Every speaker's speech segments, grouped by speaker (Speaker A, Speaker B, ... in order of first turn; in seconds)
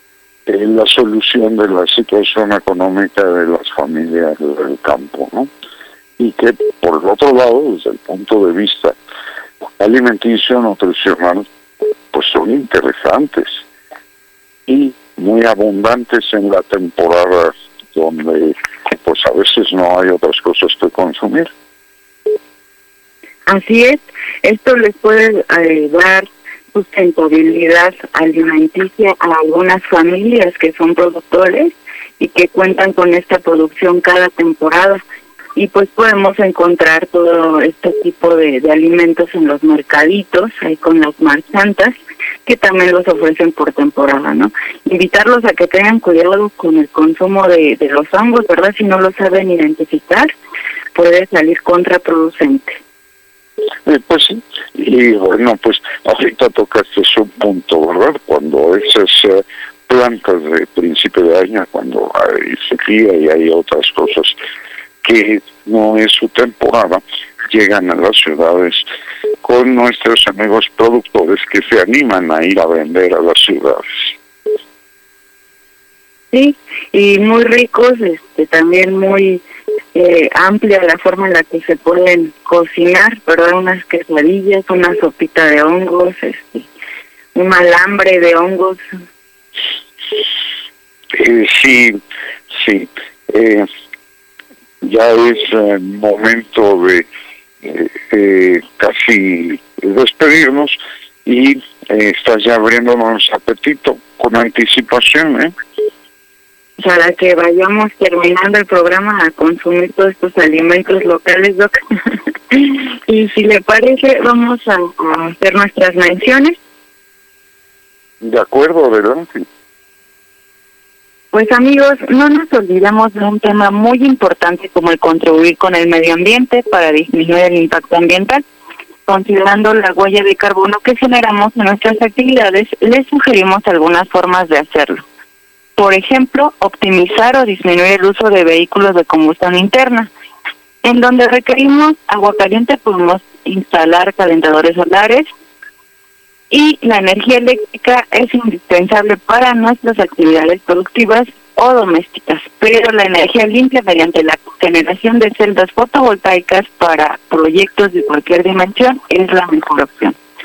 Speaker A: 0.5-5.5, 6.2-9.0, 9.8-11.5, 12.1-13.6, 14.7-21.5, 53.9-64.4, 65.0-68.8, 69.4-74.1, 91.1-92.0, 92.5-93.7, 94.8-97.1, 97.6-105.5, 118.2-119.5
Speaker B: 23.5-35.0, 35.6-42.0, 42.5-50.3, 51.0-52.8, 76.3-79.4, 79.9-86.7, 87.3-88.8, 106.8-116.6, 121.3-128.4, 129.1-135.0, 135.8-140.1, 140.8-145.3, 146.5-160.2